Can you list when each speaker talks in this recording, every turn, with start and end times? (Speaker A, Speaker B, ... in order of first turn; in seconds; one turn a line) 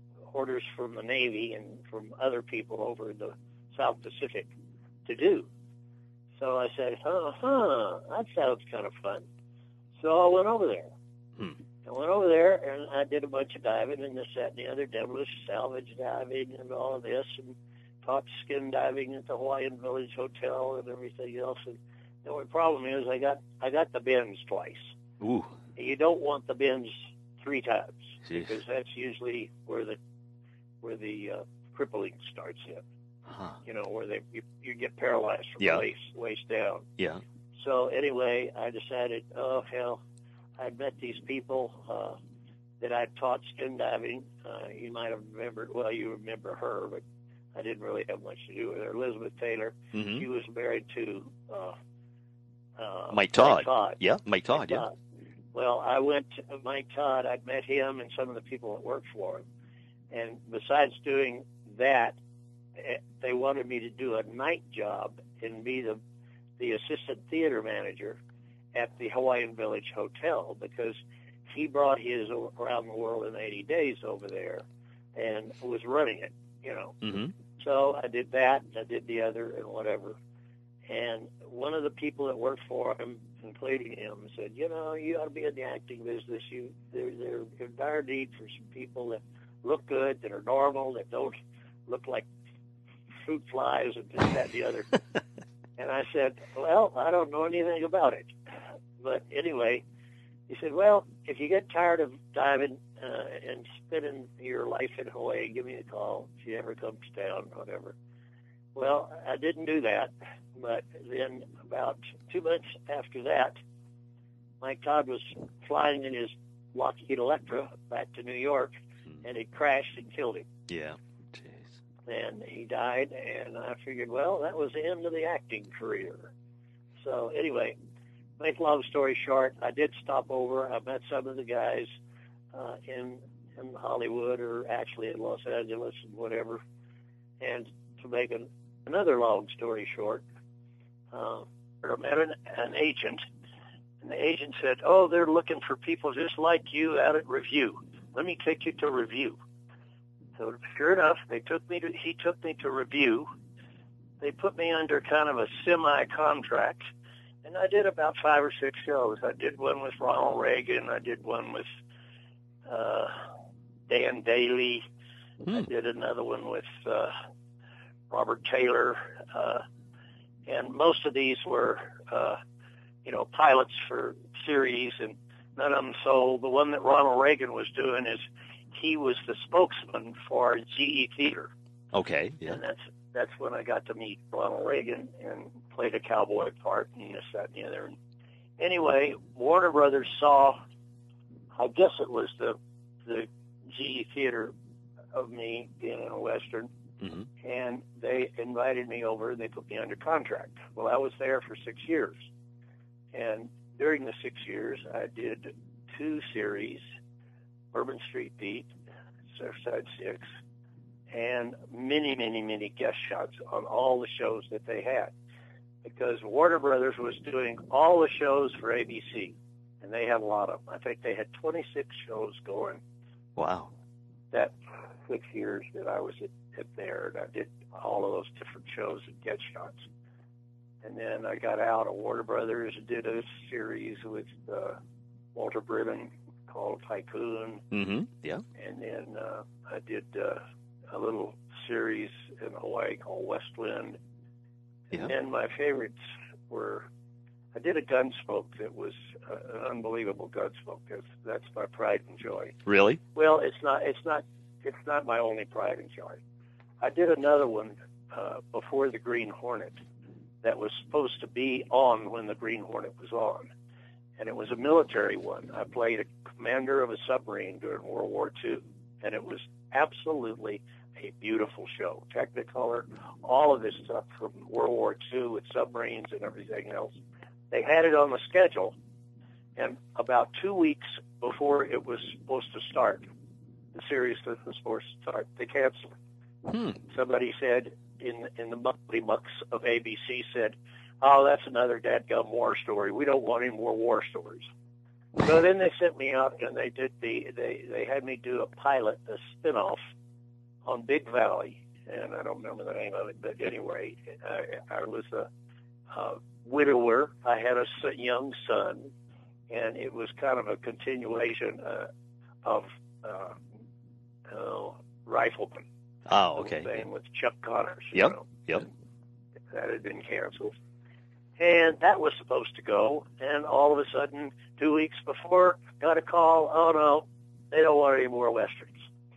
Speaker A: 0.3-4.5
Speaker A: 5.0-5.5
Speaker A: 6.4-9.2
Speaker A: 10.0-10.9
Speaker A: 11.8-24.9
Speaker B: 25.2-25.5
Speaker A: 25.8-30.0
Speaker A: 30.8-32.8
Speaker B: 33.3-33.5
Speaker A: 33.6-36.9
Speaker A: 37.6-40.0
Speaker A: 40.6-42.2
Speaker A: 42.8-47.0
Speaker A: 47.5-51.8
Speaker B: 49.9-50.2
Speaker A: 52.8-54.0
Speaker B: 53.1-54.8
Speaker A: 54.5-54.9
Speaker A: 55.5-59.4
Speaker A: 60.1-62.2
Speaker A: 62.8-66.0
Speaker A: 66.6-68.2
Speaker A: 68.7-74.6
Speaker A: 75.2-77.0
Speaker B: 77.0-77.3
Speaker A: 77.6-80.2
Speaker A: 80.9-91.4
Speaker A: 91.9-92.2
Speaker A: 93.2-94.9
Speaker A: 95.8-98.3
Speaker A: 99.0-99.8
Speaker A: 100.5-108.0
Speaker A: 108.7-113.5
Speaker A: 114.6-120.5
Speaker B: 120.7-121.8
Speaker A: 122.1-126.3
Speaker A: 127.0-127.8
Speaker A: 128.4-131.9
Speaker A: 132.5-136.6
Speaker A: 137.4-140.2
Speaker A: 141.1-143.2
Speaker A: 144.0-149.3
Speaker A: 150.4-153.3
Speaker A: 154.2-156.9
Speaker A: 157.4-161.7
Speaker A: 162.7-163.2
Speaker A: 163.9-164.8
Speaker A: 165.5-167.1
Speaker A: 168.1-169.6
Speaker A: 170.5-172.4
Speaker A: 173.0-181.5
Speaker B: 181.9-182.6
Speaker A: 182.4-187.9
Speaker A: 188.6-190.6
Speaker A: 191.6-194.5
Speaker A: 195.1-196.7
Speaker A: 197.4-202.2
Speaker A: 203.1-206.8
Speaker A: 207.7-208.7
Speaker A: 209.3-210.2
Speaker A: 211.1-215.1
Speaker A: 215.8-222.8
Speaker B: 223.3-223.7
Speaker A: 225.1-229.9
Speaker A: 230.8-234.8
Speaker A: 235.3-237.6
Speaker B: 237.7-238.4
Speaker A: 238.6-244.0
Speaker A: 244.9-246.0
Speaker A: 246.5-246.9
Speaker A: 247.5-252.6
Speaker B: 252.7-253.0
Speaker A: 253.1-256.2
Speaker A: 256.8-259.8
Speaker A: 260.4-263.5
Speaker A: 264.2-276.9
Speaker A: 277.5-278.7
Speaker A: 279.6-283.0
Speaker A: 283.7-285.9
Speaker B: 286.5-286.7
Speaker A: 286.9-294.5
Speaker A: 295.2-299.8
Speaker A: 300.6-305.3
Speaker A: 305.9-308.9
Speaker A: 309.5-311.9
Speaker A: 312.4-313.4
Speaker A: 314.3-315.6
Speaker B: 316.1-316.8
Speaker A: 316.4-318.4
Speaker B: 317.9-318.6
Speaker A: 319.5-320.5
Speaker A: 321.4-328.9